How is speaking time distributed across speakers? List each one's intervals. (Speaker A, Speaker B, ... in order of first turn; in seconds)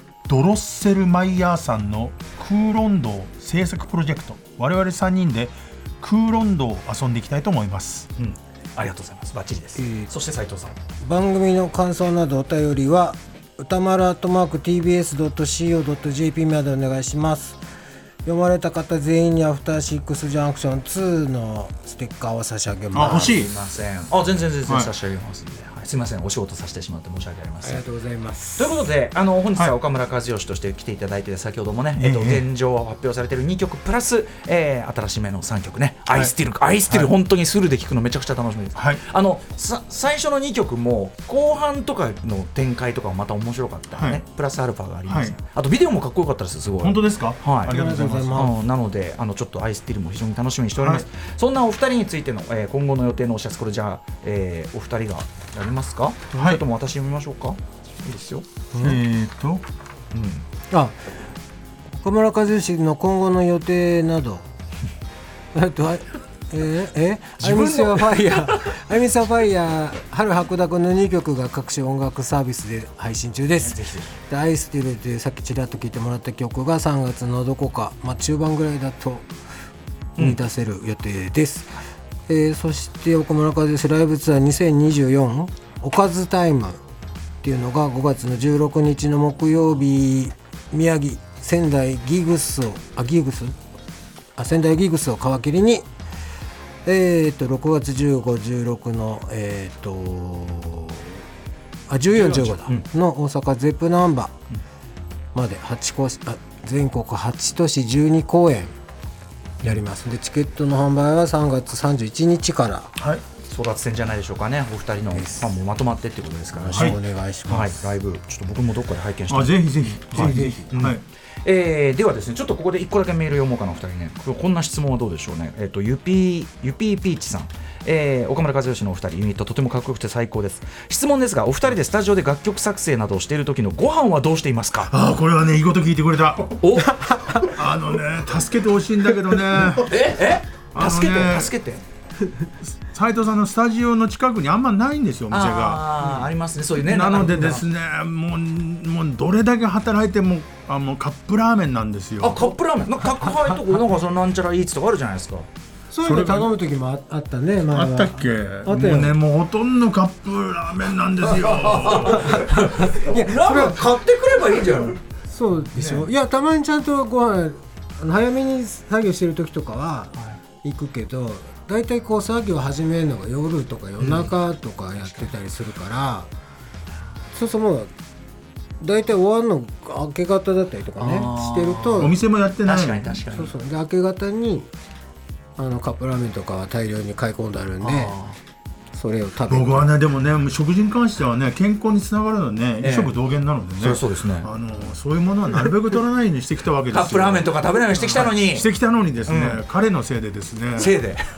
Speaker A: 0.3-8.1, 22.9-23.5, 31.9-32.5, 36.9-37.1, 38.8-39.0, 44.0-44.2, 45.1-45.4, 46.8-48.6, 50.8-51.0, 56.3-56.6, 58.8-59.6, 102.2-102.6, 113.0-113.2, 116.7-117.0, 119.3-121.0, 134.9-136.7, 137.3-139.9, 140.7-141.5, 142.6-146.2, 146.8-152.4, 156.0-156.5, 157.7-162.5, 165.7-166.1, 182.0-183.2, 189.5-201.0
Speaker B: 8.2-10.8, 23.0-27.8, 28.6-58.5, 60.1-60.5, 67.4-68.4, 73.6-74.1, 113.4-134.9, 136.6-137.0, 139.7-141.8, 145.3-147.7, 152.2-155.5, 161.2-165.0, 174.0-174.3, 181.0-183.5, 187.8-188.4, 192.8-193.2, 193.8-194.5, 196.9-198.7, 199.3-199.6, 200.8-201.3
Speaker C: 9.8-10.1, 11.0-17.6, 18.2-23.4, 27.6-28.8, 47.7-48.5, 58.7-59.0, 60.7-61.0, 62.0-64.4, 65.5-79.3, 80.2-81.8, 82.3-86.8, 87.4-93.5, 94.4-95.8, 96.8-101.2, 101.9-104.3, 105.3-108.7, 109.6-112.9, 115.1-115.5, 116.5-117.8, 120.2-120.6, 155.9-159.2, 162.9-163.9, 165.3-176.3, 177.3-177.9, 178.8-182.2, 183.3-184.7, 185.6-188.2, 188.9-190.0